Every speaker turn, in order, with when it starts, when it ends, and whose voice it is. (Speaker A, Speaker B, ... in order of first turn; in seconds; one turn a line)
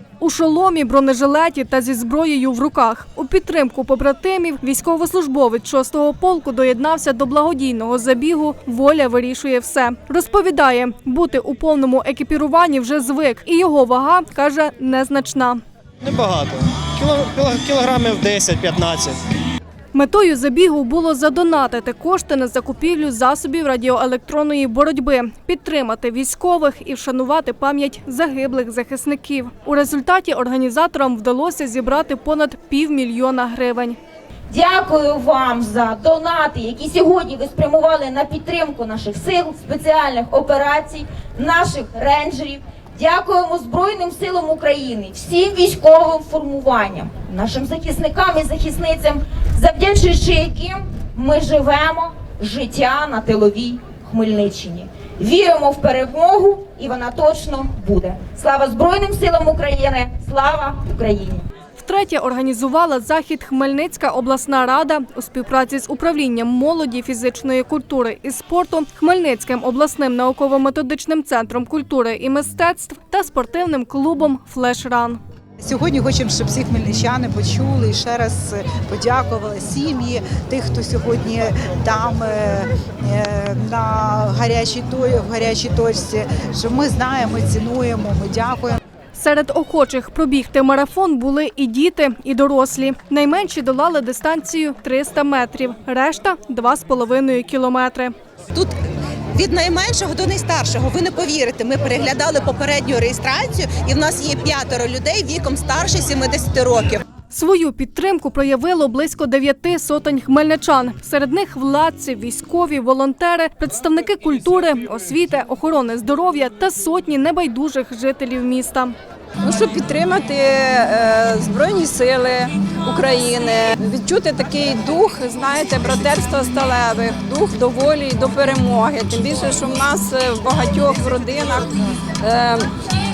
Speaker A: 0.2-15.6
Speaker B: 16.0-19.1
Speaker A: 19.9-34.0
Speaker C: 34.5-61.5
Speaker A: 61.8-75.2
Speaker D: 75.6-88.8
Speaker A: 89.1-98.1
Speaker E: 99.3-107.0
Speaker A: 107.3-118.9
Speaker F: 119.4-132.7